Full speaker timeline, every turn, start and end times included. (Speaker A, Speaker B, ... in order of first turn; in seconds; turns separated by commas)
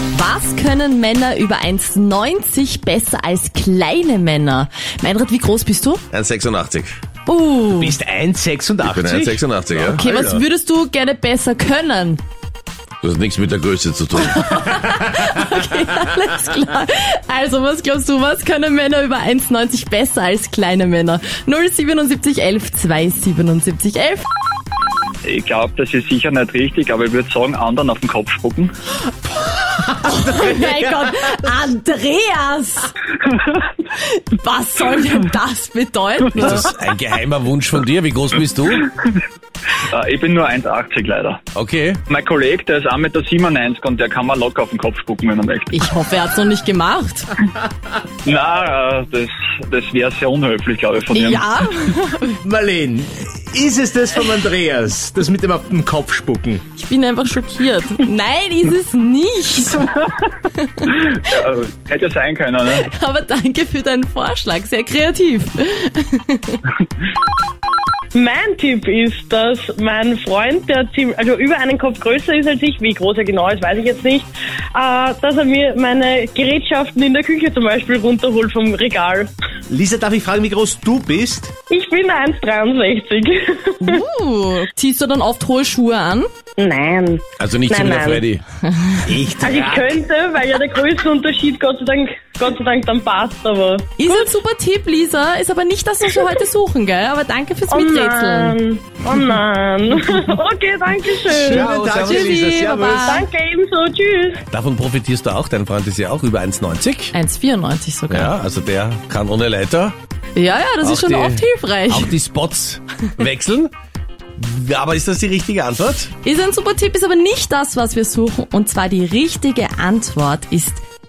Speaker A: 0.1-6.0, Speaker B: 6.1-7.0, Speaker A: 7.3-8.0, Speaker C: 7.8-10.0, Speaker B: 8.8-10.0, Speaker A: 9.9-12.2, Speaker B: 13.0-14.8, Speaker A: 14.2-24.3, Speaker D: 25.2-28.7, Speaker C: 29.9-30.9, Speaker A: 29.9-32.9, Speaker A: 33.9-36.6, Speaker B: 36.4-38.8, Speaker D: 39.8-41.4, Speaker B: 41.5-42.0, Speaker D: 42.1-45.8, Speaker A: 45.7-47.4, Speaker D: 48.2-51.5, Speaker A: 51.1-52.4, Speaker C: 52.4-56.6, Speaker A: 56.8-59.9, Speaker A: 60.4-60.9, Speaker D: 60.9-62.9, Speaker A: 62.8-66.6, Speaker E: 68.1-79.3, Speaker C: 79.7-81.5, Speaker E: 81.7-84.0, Speaker A: 83.8-86.3, Speaker E: 86.6-88.3, Speaker B: 87.4-88.4, Speaker A: 88.7-89.1, Speaker C: 89.1-89.9, Speaker E: 89.4-94.3, Speaker A: 94.0-98.6, Speaker E: 97.7-101.7, Speaker A: 101.3-103.3, Speaker C: 101.3-103.1, Speaker B: 101.6-102.3, Speaker E: 103.0-104.4, Speaker B: 104.5-107.1, Speaker A: 107.1-108.4, Speaker B: 108.1-110.0, Speaker A: 110.3-112.2, Speaker B: 110.8-113.7, Speaker B: 114.4-116.1, Speaker A: 116.2-120.8